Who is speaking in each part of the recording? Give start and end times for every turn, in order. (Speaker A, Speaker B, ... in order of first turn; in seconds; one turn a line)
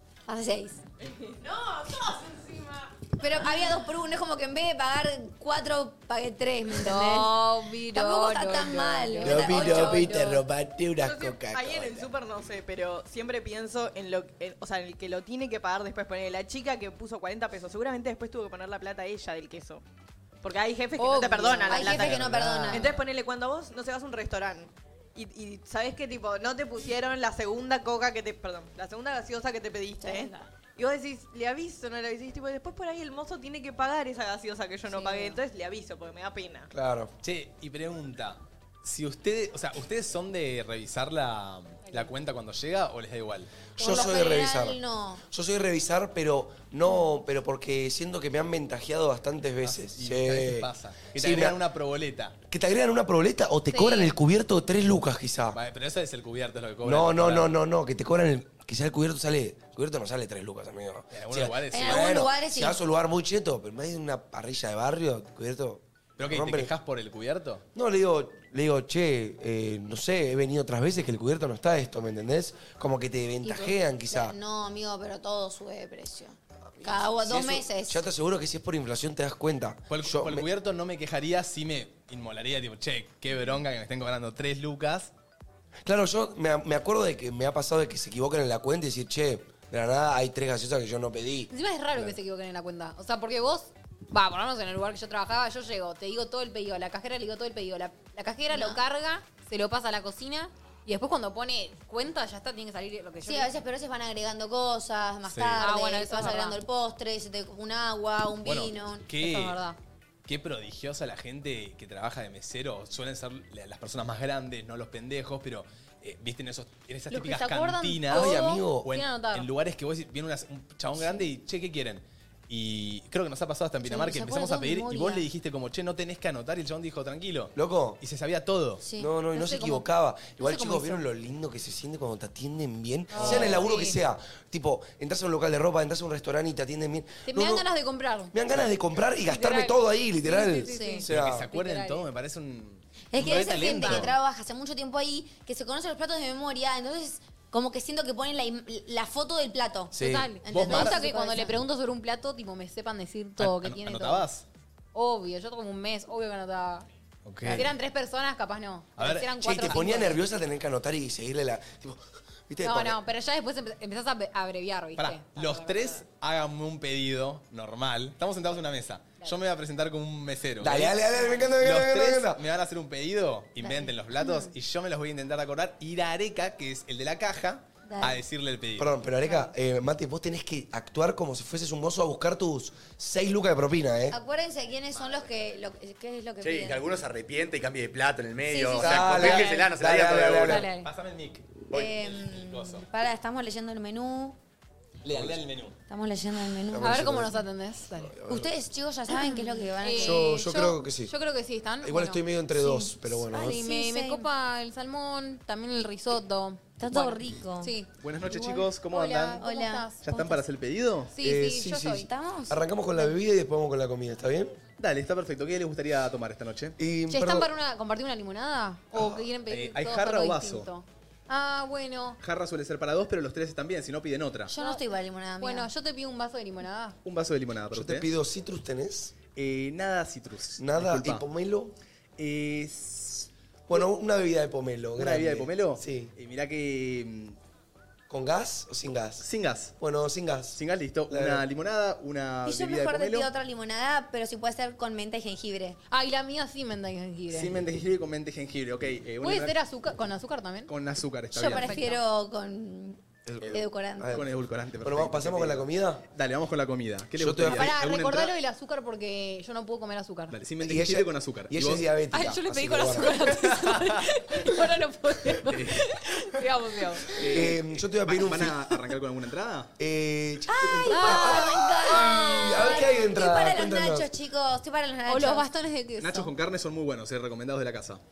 Speaker A: 0.3-0.8
Speaker B: 1.2-2.8
Speaker A: 3.2-7.3
Speaker C: 6.8-10.4
Speaker A: 7.9-10.3
Speaker D: 9.2-12.1
Speaker B: 11.0-19.8
Speaker B: 20.4-36.7
Speaker C: 21.0-22.1
Speaker A: 21.7-23.0
Speaker E: 21.8-22.9
Speaker C: 34.9-35.3
Speaker A: 35.0-35.3
Speaker D: 36.7-37.1
Speaker E: 37.2-43.5
Speaker D: 43.8-51.6
Speaker A: 43.8-45.2
Speaker E: 49.6-52.3
Speaker D: 52.5-55.6
Speaker C: 53.7-54.1
Speaker E: 55.5-57.5
Speaker D: 56.8-66.7
Speaker E: 61.1-62.2
Speaker A: 61.7-62.8
Speaker E: 66.2-67.6
Speaker D: 67.7-74.3
Speaker A: 73.4-78.0
Speaker D: 76.7-80.5
Speaker E: 79.9-85.1
Speaker D: 85.8-91.5
Speaker C: 91.5-103.5
Speaker A: 98.5-98.8
Speaker A: 103.2-109.0
Speaker E: 105.2-105.7
Speaker C: 105.6-106.6
Speaker E: 108.4-109.6
Speaker C: 109.2-109.8
Speaker E: 110.2-128.8
Speaker C: 117.1-119.5
Speaker D: 118.1-118.9
Speaker A: 123.8-125.2
Speaker D: 127.5-128.0
Speaker A: 128.8-129.1
Speaker D: 128.9-137.7
Speaker C: 129.3-129.8
Speaker C: 130.4-131.0
Speaker C: 133.1-134.0
Speaker A: 133.2-133.7
Speaker C: 137.3-138.3
Speaker D: 138.3-141.4
Speaker C: 139.2-142.0
Speaker A: 140.6-141.1
Speaker E: 141.1-144.1
Speaker A: 143.1-151.6
Speaker C: 143.8-144.1
Speaker D: 149.9-150.3
Speaker C: 149.9-154.3
Speaker E: 150.5-151.0
Speaker E: 153.4-154.4
Speaker C: 154.9-156.8
Speaker E: 157.2-157.7
Speaker C: 157.5-160.2
Speaker E: 159.0-159.8
Speaker D: 159.4-163.0
Speaker C: 162.6-166.0
Speaker E: 165.0-171.0
Speaker D: 170.6-172.4
Speaker E: 171.6-178.9
Speaker A: 173.6-174.4
Speaker A: 177.9-178.2
Speaker D: 178.8-184.2
Speaker A: 184.1-186.8
Speaker F: 186.4-190.6
Speaker A: 188.4-189.2
Speaker D: 188.8-190.7
Speaker C: 189.2-189.6
Speaker C: 190.4-190.9
Speaker E: 190.6-191.6
Speaker A: 191.7-194.3
Speaker F: 191.7-192.1
Speaker E: 192.3-192.8
Speaker E: 195.0-195.7
Speaker A: 195.9-197.1
Speaker D: 196.7-197.4
Speaker C: 196.8-198.1
Speaker D: 198.0-198.6
Speaker A: 198.3-200.3
Speaker C: 199.3-202.8
Speaker D: 200.0-201.1
Speaker D: 201.8-203.6
Speaker A: 202.6-204.3
Speaker C: 203.3-210.3
Speaker A: 206.8-207.7
Speaker E: 208.0-209.4
Speaker A: 209.4-209.9
Speaker E: 210.0-211.1
Speaker C: 211.1-212.1
Speaker D: 211.2-214.6
Speaker A: 211.8-213.1
Speaker E: 214.8-216.8
Speaker D: 216.8-217.5
Speaker C: 217.1-222.2
Speaker D: 218.9-219.2
Speaker E: 219.5-220.7
Speaker E: 222.2-224.5
Speaker A: 224.5-225.7
Speaker C: 224.5-224.8
Speaker C: 225.4-227.0
Speaker E: 227.0-228.1
Speaker D: 227.7-229.1
Speaker E: 229.3-231.2
Speaker D: 230.6-231.7
Speaker E: 232.2-233.8
Speaker D: 233.7-236.1
Speaker E: 235.0-237.4
Speaker D: 238.1-239.3
Speaker E: 239.2-239.7
Speaker D: 239.8-241.4
Speaker E: 240.5-243.3
Speaker A: 242.4-245.8
Speaker C: 245.9-247.5
Speaker E: 247.3-249.6
Speaker C: 249.2-250.7
Speaker E: 250.7-251.8
Speaker A: 251.3-254.2
Speaker C: 251.5-252.0
Speaker D: 254.0-254.3
Speaker E: 254.1-258.3
Speaker D: 254.8-256.0
Speaker D: 257.2-257.7
Speaker C: 257.5-260.3
Speaker E: 260.3-261.9
Speaker D: 260.6-263.3
Speaker C: 262.1-267.1
Speaker E: 263.5-263.9
Speaker E: 265.5-266.0
Speaker E: 267.1-269.7
Speaker D: 267.2-268.6
Speaker D: 269.8-274.1
Speaker A: 270.5-275.5
Speaker C: 270.9-272.1
Speaker C: 275.1-276.3
Speaker E: 276.0-278.0